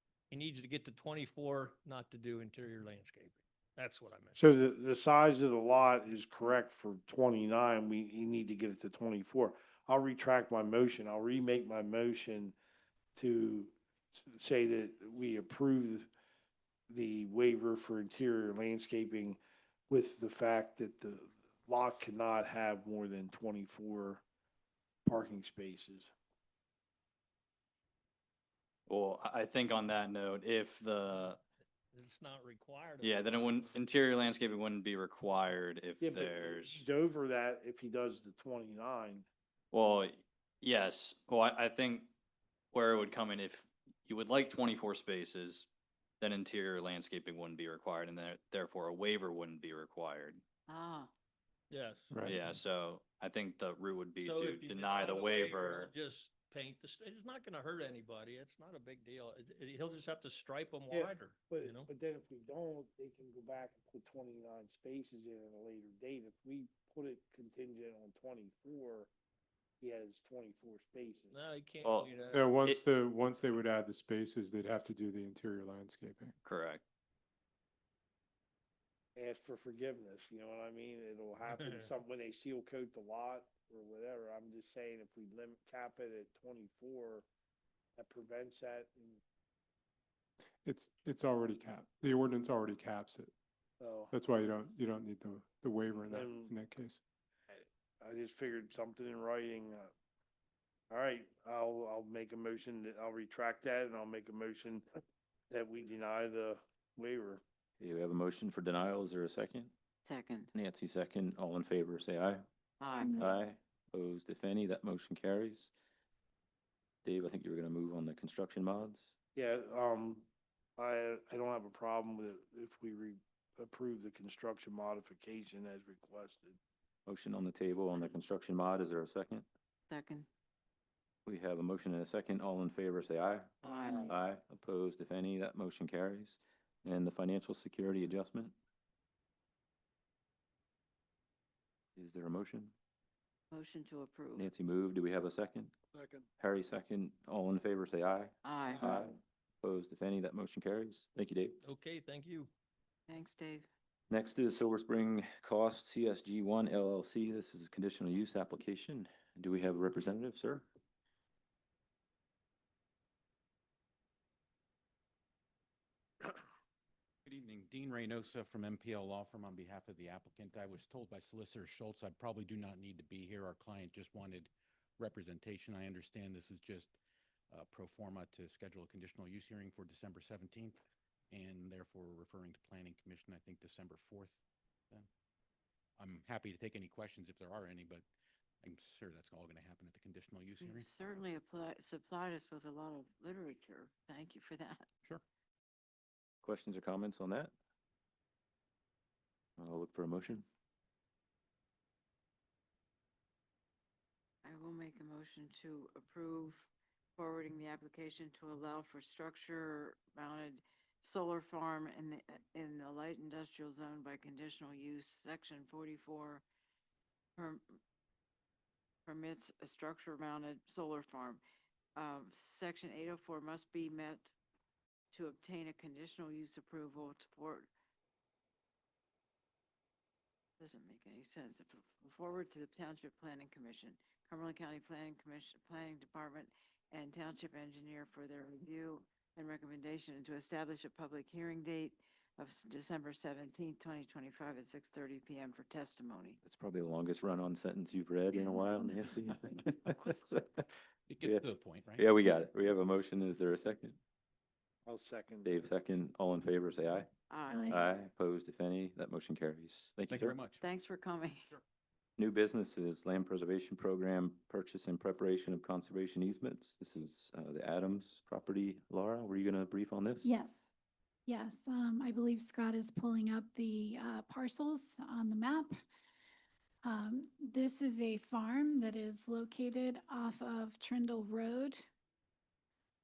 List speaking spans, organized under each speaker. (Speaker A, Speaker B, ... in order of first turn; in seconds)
Speaker A: 0.3-4.5, 31.9-33.8, 51.7-52.1, 54.2-61.9, 71.3-72.5, 81.4-81.9, 151.6-152.5
Speaker B: 4.3-12.6, 13.2-16.1, 16.9-24.2, 25.0-26.1, 36.0-39.3, 60.9-69.1, 69.8-71.3, 79.2-87.3, 88.0-89.2, 93.8-94.1, 96.0-96.5, 97.5-99.9, 100.9-104.8, 105.5-107.4, 119.3-120.2, 120.8-126.6, 133.7-134.1, 145.9-146.2, 254.8-255.6
Speaker C: 28.9-31.4, 33.0-36.8, 39.7-42.1, 42.7-45.7, 46.2-50.4, 52.2-55.9, 71.8-72.8, 76.4-76.8
Speaker D: 50.7-51.1, 110.0-110.5, 112.8-113.3, 129.9-130.3, 133.6-134.1, 143.5-144.5, 148.4-148.9, 153.1-153.7, 190.6-194.8, 204.4-216.4, 217.4-217.8, 219.1-221.4, 221.9-224.3, 225.1-227.7, 230.6-246.4, 257.3-257.9, 260.6-261.5
Speaker E: 52.1-52.5, 72.3-76.3, 90.6-93.3, 94.1-97.0
Speaker F: 107.8-109.7, 110.5-112.4, 113.1-115.7, 117.0-119.1, 127.1-129.4, 131.2-138.5, 141.9-142.7, 144.3-145.7, 146.4-151.6, 154.1-160.7, 196.4-197.5, 199.6-200.4, 246.4-250.7, 251.2-254.0, 255.4-257.1, 257.7-260.4, 262.2-270.3
Speaker G: 113.0-113.2, 248.3-249.1, 257.5-257.8, 270.2-270.7, 271.3-275.8, 276.8-281.9
Speaker H: 167.2-176.9, 177.5-185.1, 186.0-188.0, 188.6-190.9, 251.1-252.1, 260.1-260.6